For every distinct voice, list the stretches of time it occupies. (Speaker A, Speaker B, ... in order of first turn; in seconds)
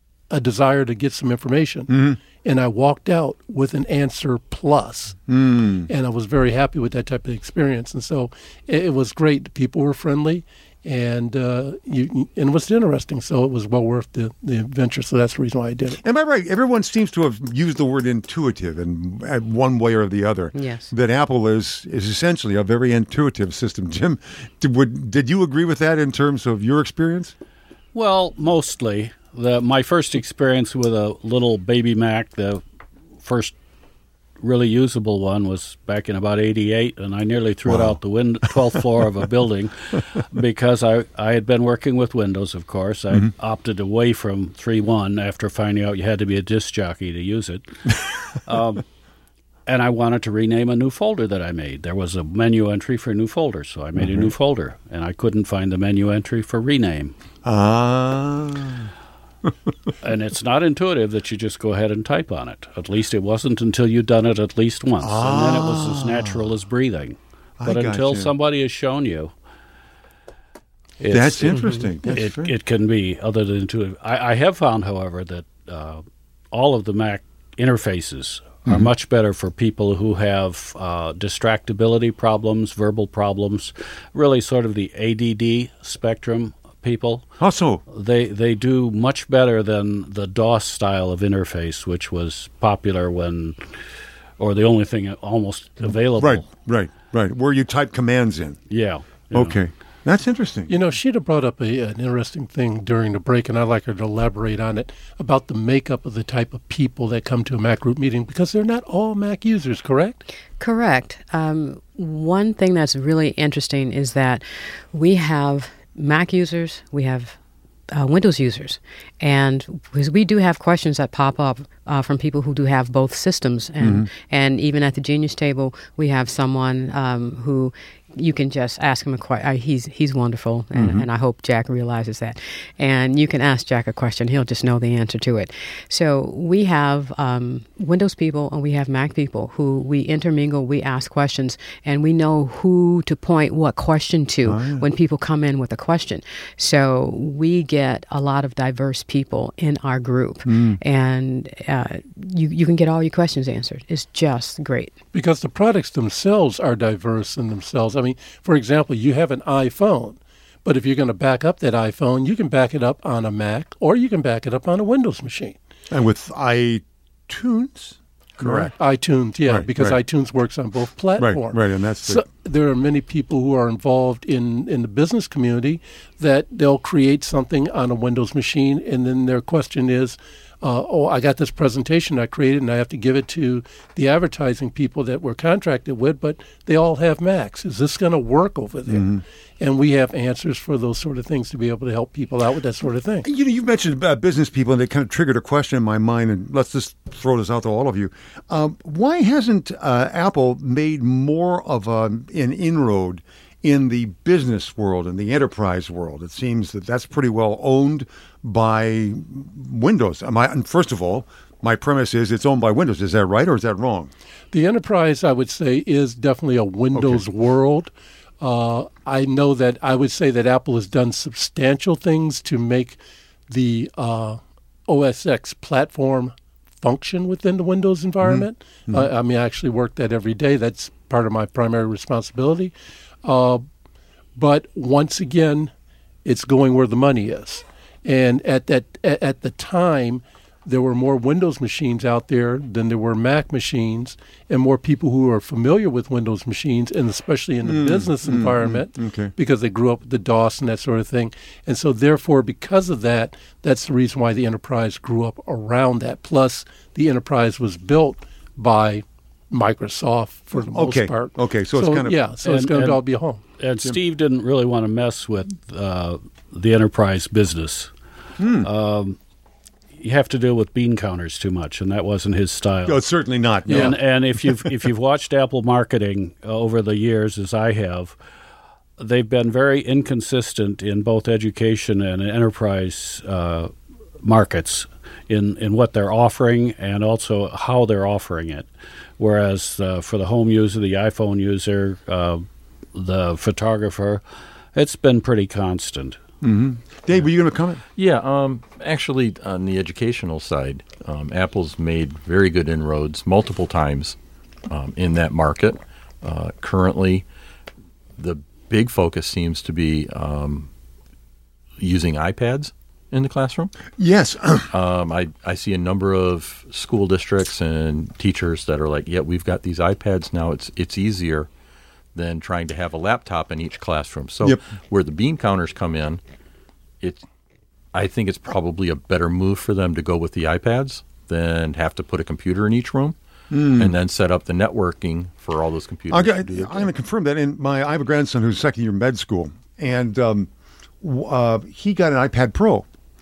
Speaker A: 0.3-5.2, 5.9-16.0, 100.7-110.2, 155.1-165.6, 168.4-193.3, 214.5-232.7, 233.2-233.6, 234.4-235.7, 236.2-263.4
Speaker B: 1.9-2.2, 5.3-5.9, 16.0-27.3, 37.6-38.8, 54.0-54.3, 57.4-58.9, 65.0-66.5, 67.6-68.3, 71.1-72.5, 87.4-87.8, 95.9-98.6, 99.3-100.7, 123.8-124.1, 130.7-131.1, 144.4-144.8, 150.4-150.8, 165.9-168.7, 169.4-170.0, 171.2-172.2, 188.9-189.2, 193.2-214.1, 216.9-217.2, 228.2-229.1, 247.6-249.3, 260.6-262.2, 268.4-268.7, 272.9-274.0, 296.4-297.8, 314.0-314.7, 333.5-333.9, 336.1-340.5, 341.0-342.9
Speaker C: 20.6-20.9, 110.6-117.4, 117.9-154.9
Speaker D: 27.9-32.6, 33.2-33.5, 34.4-48.8, 49.7-57.1, 60.0-69.3, 71.0-87.2, 87.9-93.6, 94.4-96.5, 98.7-99.6, 262.4-263.0, 263.6-267.9, 268.6-269.2, 270.0-273.0, 273.7-278.1, 279.0-288.7, 289.2-294.2, 294.7-296.2
Speaker E: 297.9-304.2, 304.7-307.2, 308.2-310.7, 311.8-313.7, 314.7-321.5, 322.1-326.2, 327.9-333.1, 333.7-336.9